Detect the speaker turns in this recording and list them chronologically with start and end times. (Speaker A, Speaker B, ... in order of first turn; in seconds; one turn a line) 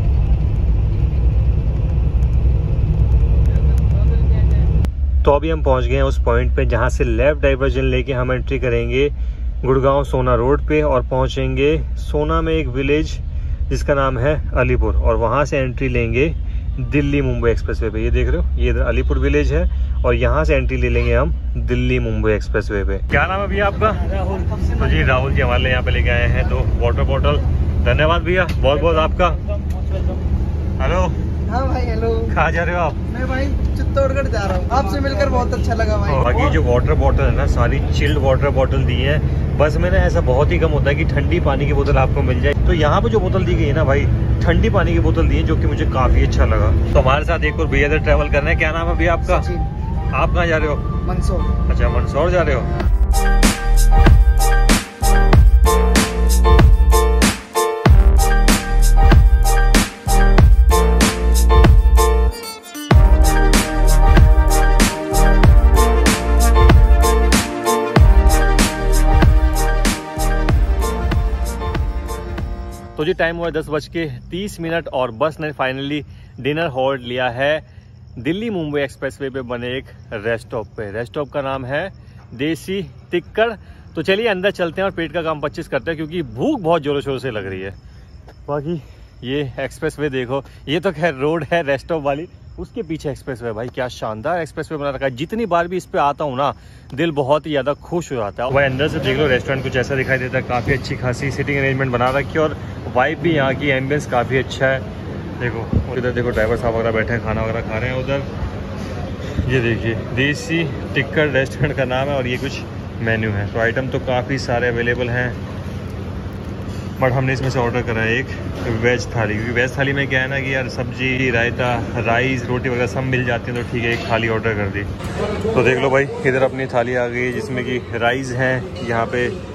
Speaker A: 5.2-29.4
Speaker B: 24.2-24.6
Speaker A: 30.8-31.2
Speaker B: 31.5-32.3
Speaker A: 32.3-33.0
Speaker B: 33.1-36.6
Speaker A: 36.0-49.5
Speaker B: 49.2-49.7
Speaker A: 50.1-50.9
Speaker B: 51.0-51.5
Speaker A: 51.7-52.7
Speaker A: 73.0-77.6
Speaker A: 78.2-87.8
Speaker A: 88.5-104.8
Speaker A: 105.4-108.3
Speaker A: 109.4-115.4
Speaker A: 117.0-124.9
Speaker A: 125.5-129.4